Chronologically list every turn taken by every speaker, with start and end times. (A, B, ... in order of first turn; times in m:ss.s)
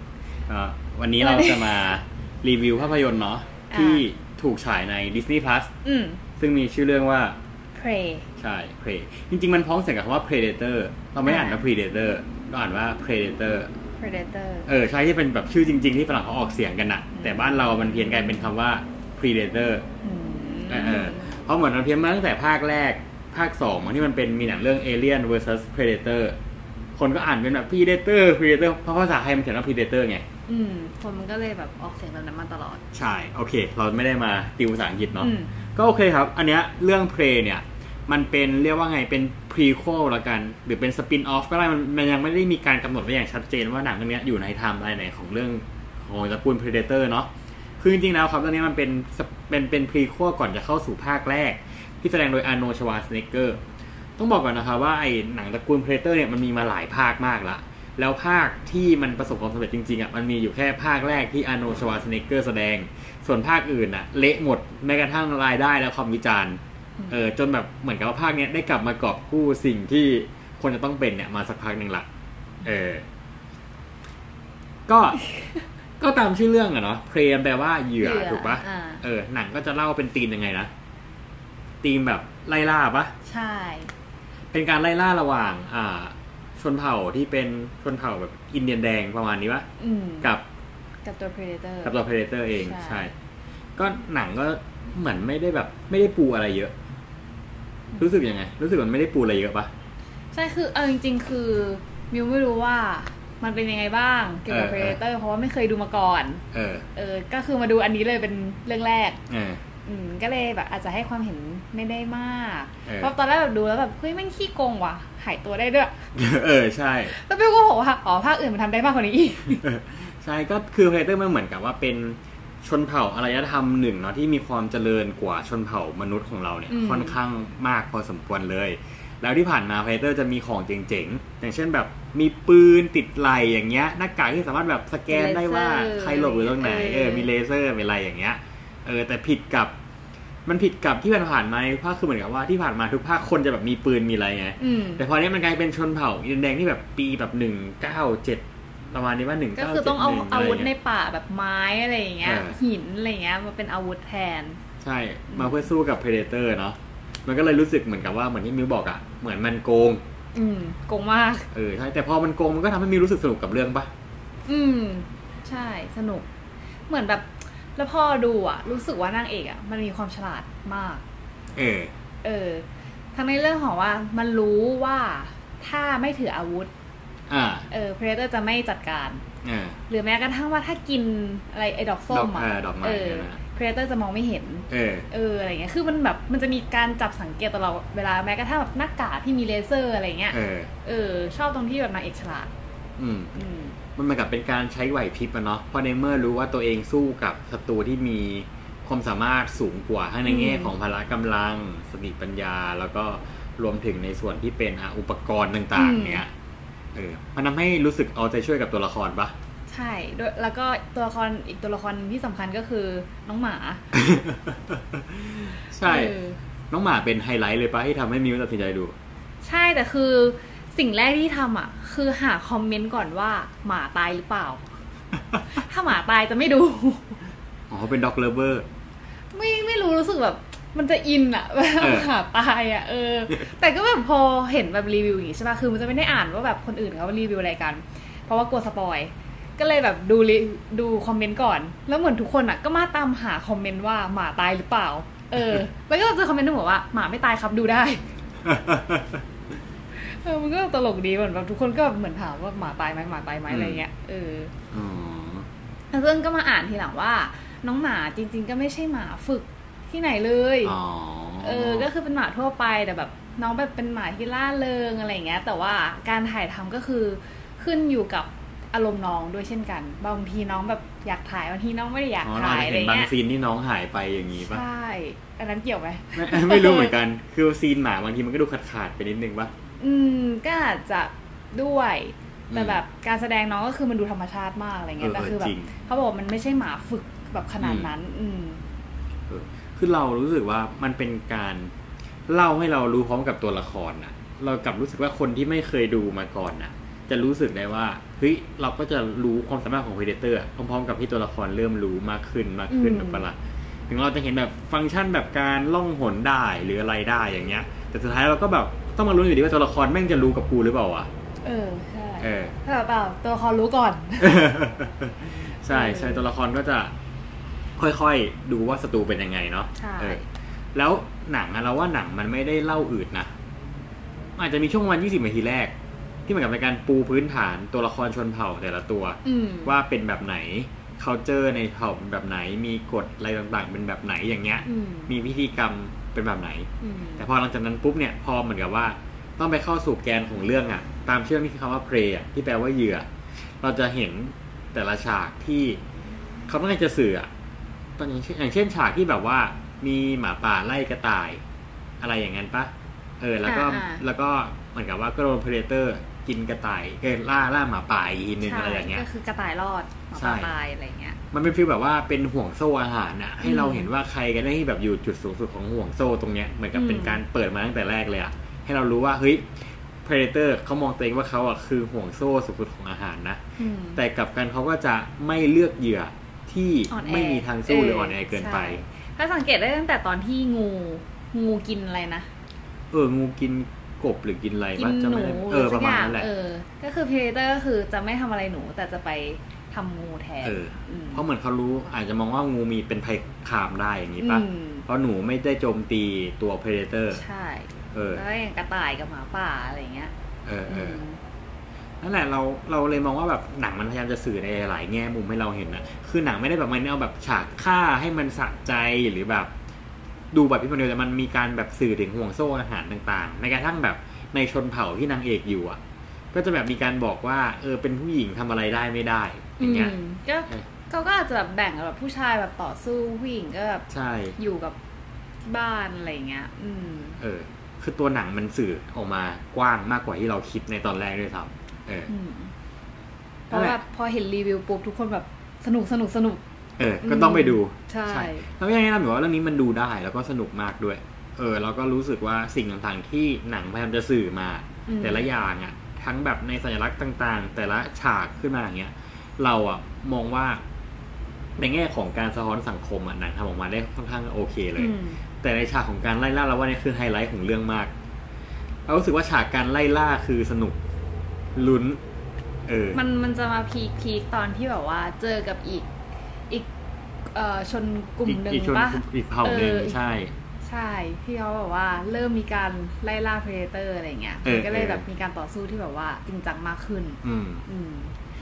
0:00.5-0:05.7 A
0:01.2-0:01.8 B
0:03.7-0:04.1 B
0:05.8-0:06.2 B
0:06.4-0:07.4 A
0:07.8-0:08.3 B
0:08.4-0:13.7 A
0:11.2-0:11.6 B
0:14.0-0:14.7 B
0:14.7-0:19.8 A
0:17.2-0:18.4 B
0:20.0-0:21.3 B
0:20.7-0:26.4 A
0:27.0-0:30.2 A
0:30.5-0:32.8 B
0:32.9-0:53.6 A
0:35.2-0:35.5 B
0:54.2-1:12.1 A
1:12.6-1:13.0 A
1:14.9-1:15.2 A
1:16.0-1:20.7 A
1:18.0-1:19.0 B
1:21.8-1:23.1 A
1:23.2-1:23.9 B
1:24.5-1:29.7 A
1:29.8-1:30.3 B
1:31.0-1:32.0 B
1:31.8-1:33.1 A
1:32.6-1:33.1 B
1:33.8-1:36.7 A
1:38.0-1:39.7 A
1:40.3-1:46.4 B
1:44.5-1:45.0 A
1:46.5-1:46.8 A
1:47.0-1:49.2 B
1:49.3-1:49.6 A
1:49.8-1:55.9 B
1:52.9-1:53.1 A
1:56.2-1:57.2 A
1:57.1-1:59.7 B
1:59.6-2:19.7 A
2:06.7-2:07.2 B
2:15.1-2:17.3 B
2:20.5-2:30.7 A
2:24.6-2:25.0 B
2:29.6-2:34.6 B
2:32.2-2:32.6 A
2:34.8-2:40.0 A
2:35.3-2:35.6 B
2:40.4-2:41.5 B
2:41.5-2:43.9 A
2:44.5-2:46.3 B
2:46.9-2:51.0 B
2:51.6-2:51.9 A
2:52.2-2:56.7 B
2:57.3-2:57.7 A
2:57.7-2:59.2 B
2:59.4-2:59.8 A
2:59.9-3:12.5 B
3:02.1-3:03.4 A
3:04.7-3:05.1 A
3:10.3-3:10.7 A
3:13.0-3:13.3 A
3:13.4-3:13.8 B
3:14.0-3:26.3 A
3:20.2-3:20.7 B
3:25.8-3:26.2 B
3:27.0-3:29.3 A
3:29.7-3:33.8 B
3:33.9-3:36.1 A
3:35.8-3:36.4 B
3:36.7-3:38.9 A
3:39.4-3:44.6 B
3:45.5-3:47.2 B
3:47.7-3:48.7 A
3:49.3-4:08.0 B
3:51.8-3:52.1 A
4:08.4-4:09.2 A
4:10.0-4:14.5 B
4:13.5-4:13.8 A
4:14.7-4:15.5 A
4:15.9-4:20.8 B
4:20.6-4:21.9 A
4:21.4-4:33.1 B
4:32.2-4:34.6 A
4:34.4-4:37.0 B
4:36.2-4:39.5 A
4:39.8-4:48.6 B
4:42.5-4:42.8 A
4:45.0-4:45.7 A
4:47.6-4:47.9 A
4:49.3-4:51.7 A
4:52.3-5:03.4 A
5:02.7-5:03.2 B
5:03.9-5:11.1 A
5:11.4-5:14.4 B
5:12.2-5:12.5 A
5:14.2-5:16.9 A
5:15.7-5:16.3 B
5:17.8-5:20.2 A
5:19.8-5:20.2 B
5:20.8-5:23.3 A
5:24.4-5:25.7 A
5:26.3-5:43.1 A
5:29.2-5:29.7 B
5:34.7-5:35.1 B
5:36.8-5:37.2 B
5:43.6-5:45.8 A
5:46.5-5:47.3 A
5:48.0-5:51.4 A
5:52.0-5:59.0 A
5:53.4-5:54.0 B
5:58.4-6:01.2 B
6:00.2-6:00.5 A
6:01.3-6:09.5 A
6:03.4-6:03.9 B
6:06.7-6:07.2 B
6:10.0-6:13.4 A
6:13.6-6:14.0 B
6:14.0-6:18.8 A
6:16.9-6:22.3 B
6:22.9-6:26.3 A
6:24.8-6:31.2 B
6:30.4-6:37.2 A
6:34.2-6:34.8 B
6:37.1-6:40.1 B
6:37.9-6:38.2 A
6:40.5-6:41.0 A
6:40.7-6:41.2 B
6:42.0-6:49.5 A
6:50.3-6:55.8 A
6:56.3-7:00.0 A
6:59.6-7:03.8 B
7:03.9-7:04.4 A
7:04.4-7:04.8 B
7:05.4-7:07.2 B
7:07.2-7:12.1 A
7:12.1-7:12.5 B
7:13.5-7:16.4 B
7:13.5-7:13.8 A
7:16.8-7:30.6 A
7:17.0-7:18.5 B
7:24.9-7:25.3 B
7:31.6-7:37.9 A
7:34.8-7:35.2 B
7:38.9-7:40.8 A
7:41.6-7:42.0 A
7:42.7-7:43.0 A
7:42.9-7:45.9 B
7:47.3-7:50.0 B
7:48.3-7:50.3 A
7:50.6-7:58.1 B
7:54.4-7:55.1 A
7:57.2-7:57.6 A